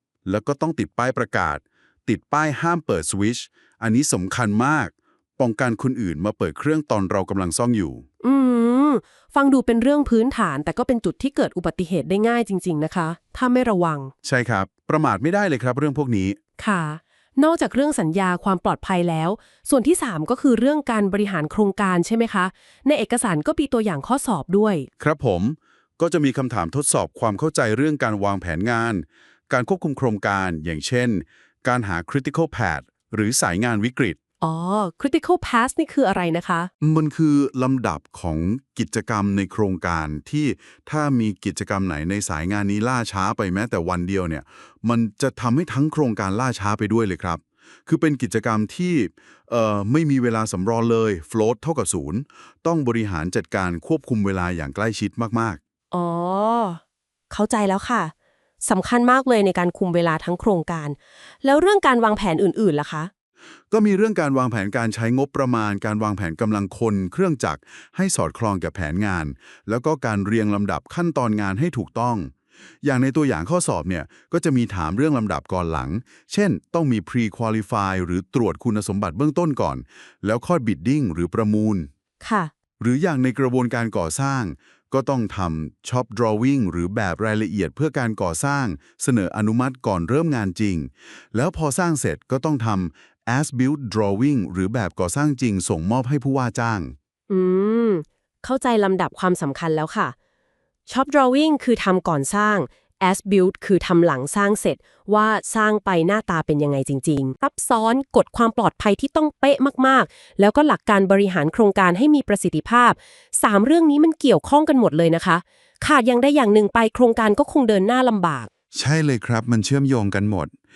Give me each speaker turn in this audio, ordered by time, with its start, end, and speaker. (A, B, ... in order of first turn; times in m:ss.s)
0:00.2-0:08.0 A
0:08.2-0:14.1 B
0:14.2-0:16.4 A
0:16.6-0:24.9 B
0:25.0-0:34.2 A
0:34.4-0:36.7 B
0:36.8-0:55.6 A
0:55.9-1:03.1 B
1:03.7-1:21.9 A
1:22.2-1:22.5 B
1:22.8-1:37.0 A
1:37.3-1:40.2 B
1:40.9-1:58.5 B
1:58.7-2:00.5 A